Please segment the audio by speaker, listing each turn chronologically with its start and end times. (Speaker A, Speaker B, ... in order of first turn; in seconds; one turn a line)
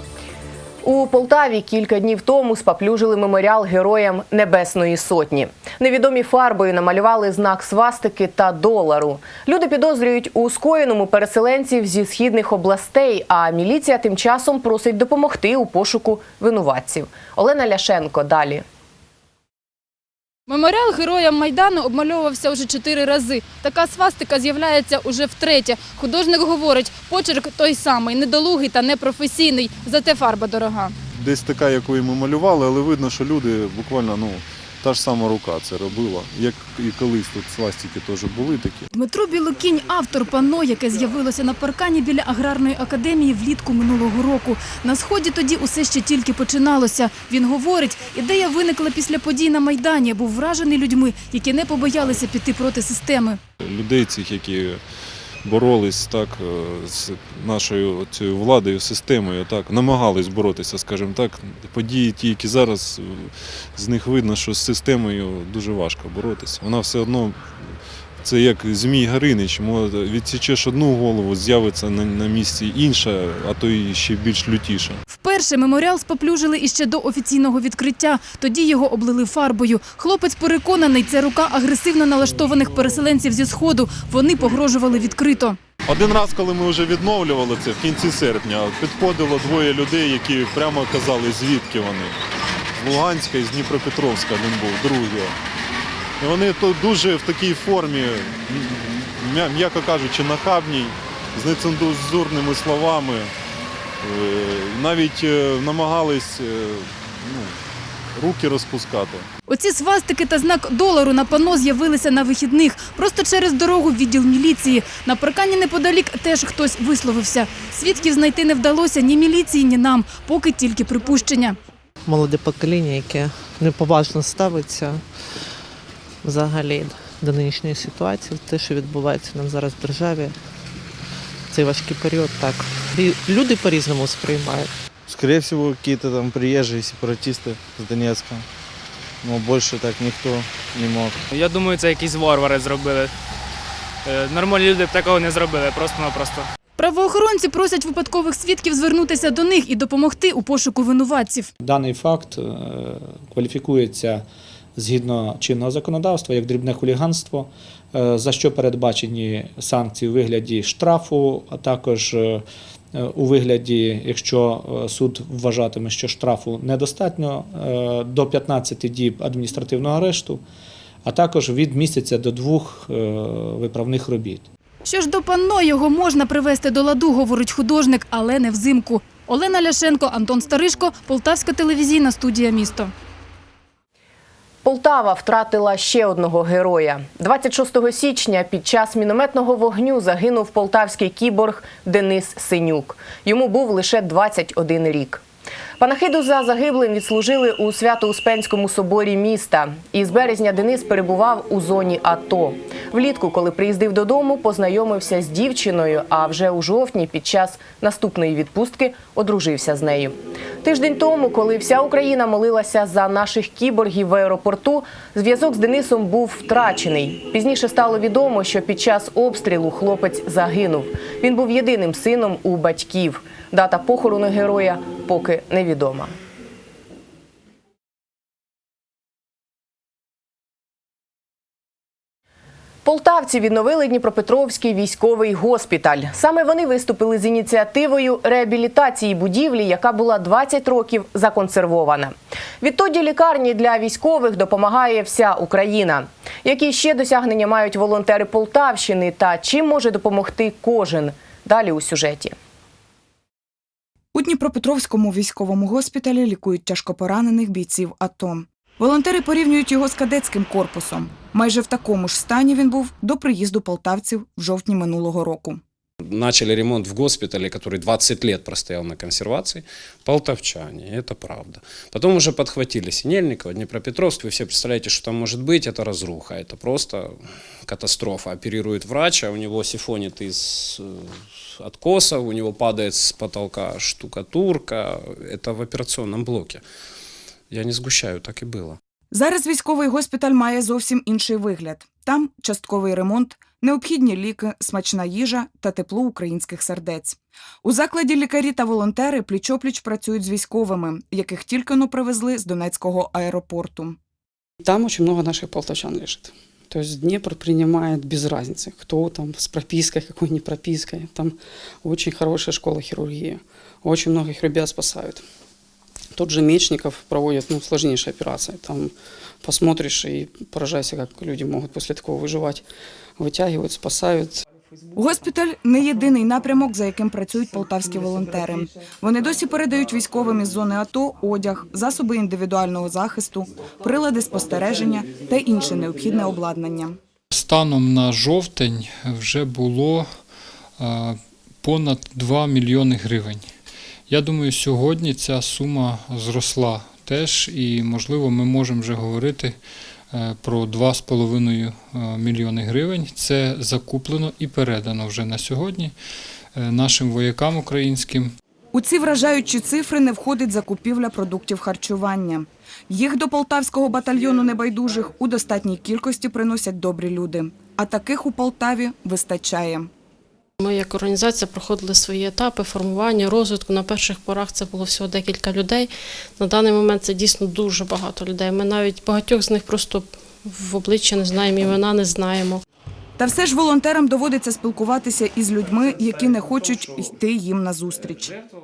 Speaker A: 0.8-18.6
Speaker B: 20.5-30.9
Speaker C: 31.1-38.9
Speaker B: 38.9-53.4
Speaker C: 53.6-54.8
Speaker C: 55.4-75.0
Speaker B: 75.1-85.6
Speaker C: 85.9-92.2
Speaker C: 92.8-95.3
Speaker C: 96.2-103.3
Speaker C: 104.0-107.6
Speaker C: 108.1-109.3
Speaker B: 109.5-121.6
Speaker D: 122.0-125.6
Speaker D: 126.2-130.4
Speaker D: 131.5-134.7
Speaker E: 135.1-138.4
Speaker E: 139.2-141.2
Speaker F: 141.3-143.1
Speaker F: 144.0-146.5
Speaker B: 146.8-151.5
Speaker G: 151.6-154.2
Speaker G: 154.8-162.4
Speaker G: 162.9-170.4
Speaker G: 171.0-174.4
Speaker B: 174.8-182.9
Speaker A: 184.6-195.2
Speaker A: 195.8-226.1
Speaker A: 232.8-252.3
Speaker H: 254.1-265.6
Speaker I: 266.0-286.6
Speaker I: 287.5-288.8
Speaker H: 289.1-304.0
Speaker J: 304.6-315.2
Speaker J: 316.1-322.6
Speaker J: 323.2-324.4
Speaker H: 324.9-337.0
Speaker K: 337.3-340.2
Speaker K: 340.8-343.5
Speaker K: 344.1-349.6
Speaker K: 350.1-355.9
Speaker K: 356.5-358.3
Speaker H: 358.7-369.9
Speaker L: 370.6-382.6
Speaker H: 383.2-388.4